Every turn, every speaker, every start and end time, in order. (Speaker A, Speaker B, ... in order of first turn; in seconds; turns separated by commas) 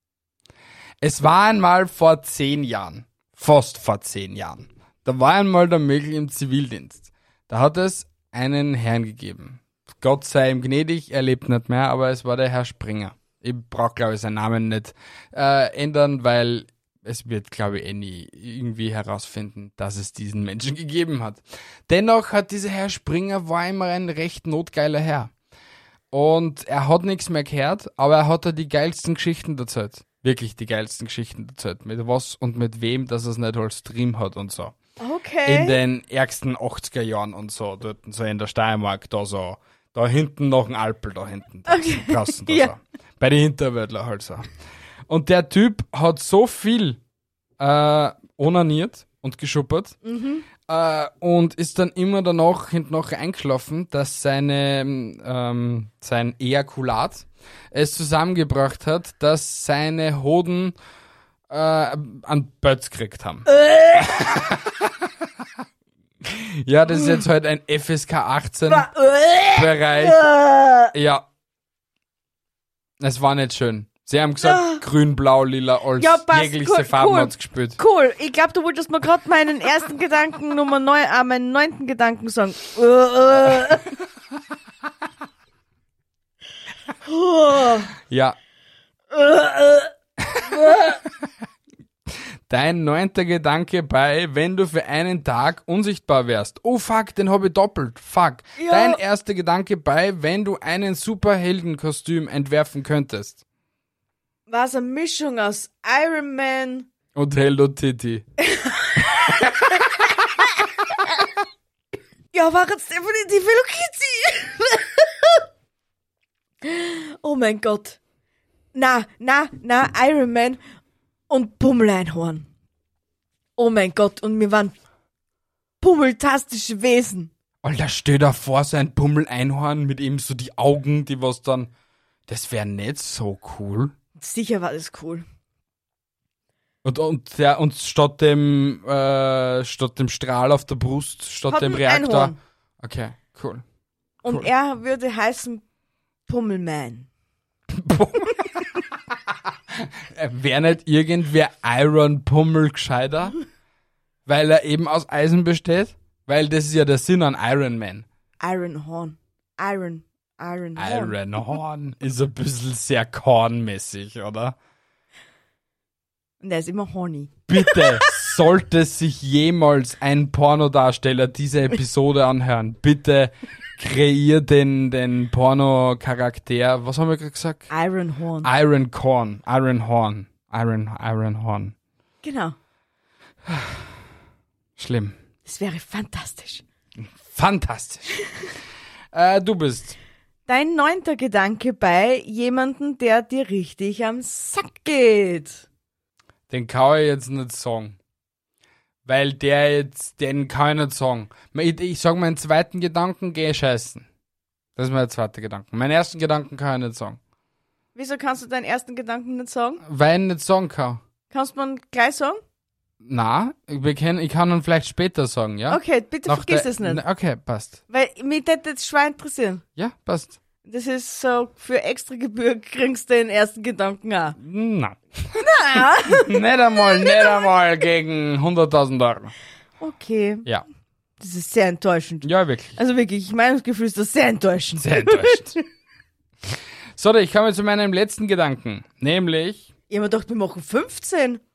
Speaker A: 1.0-25.3, Speaker A: 26.1-34.8, Speaker B: 35.0-35.8, Speaker A: 35.4-44.5, Speaker B: 41.7-42.7, Speaker A: 45.1-47.0, Speaker A: 47.6-50.0, Speaker B: 50.0-50.5, Speaker A: 50.6-60.7, Speaker A: 61.5-65.1, Speaker B: 63.5-64.1, Speaker A: 66.2-68.9, Speaker B: 68.7-70.9, Speaker A: 69.5-70.2, Speaker A: 70.9-71.2, Speaker A: 73.0-77.8, Speaker B: 74.4-74.8, Speaker B: 76.0-83.9, Speaker B: 87.0-87.9, Speaker A: 88.1-88.3, Speaker B: 89.1-89.9, Speaker A: 90.2-90.8, Speaker B: 90.5-91.0, Speaker A: 92.1-103.4, Speaker B: 98.5-99.0, Speaker B: 104.5-106.9, Speaker A: 107.1-108.2, Speaker B: 108.4-109.8, Speaker A: 109.4-109.9, Speaker B: 112.3-115.4, Speaker B: 116.6-118.0, Speaker B: 118.7-120.6, Speaker B: 121.3-122.5, Speaker B: 123.6-124.8, Speaker B: 125.8-127.3, Speaker A: 127.6-131.7, Speaker A: 132.3-133.9, Speaker B: 134.2-135.2, Speaker A: 136.8-143.6, Speaker B: 141.5-142.4, Speaker B: 144.2-145.6, Speaker B: 146.3-147.1, Speaker A: 147.7-148.7, Speaker A: 149.7-153.4, Speaker A: 154.2-158.1, Speaker B: 158.4-161.2, Speaker A: 160.8-164.6, Speaker B: 166.4-168.1, Speaker A: 167.5-177.7, Speaker B: 177.7-178.5, Speaker A: 178.4-181.7, Speaker B: 182.2-182.6, Speaker A: 183.5-183.9, Speaker A: 184.8-185.2, Speaker B: 185.4-186.6, Speaker A: 187.0-188.2, Speaker A: 189.1-189.9, Speaker B: 190.5-195.6, Speaker A: 196.5-198.0, Speaker A: 199.0-204.1, Speaker A: 204.8-207.2, Speaker B: 207.9-209.8, Speaker A: 209.8-211.0, Speaker B: 211.3-212.4, Speaker A: 213.0-217.8, Speaker B: 215.7-217.0, Speaker B: 217.9-219.6, Speaker A: 219.8-220.4, Speaker B: 220.6-224.4, Speaker A: 224.4-229.3, Speaker B: 225.4-227.4, Speaker B: 229.8-230.4, Speaker B: 231.2-235.6, Speaker A: 232.2-232.8, Speaker A: 234.8-235.6, Speaker A: 236.9-239.7, Speaker B: 239.9-241.4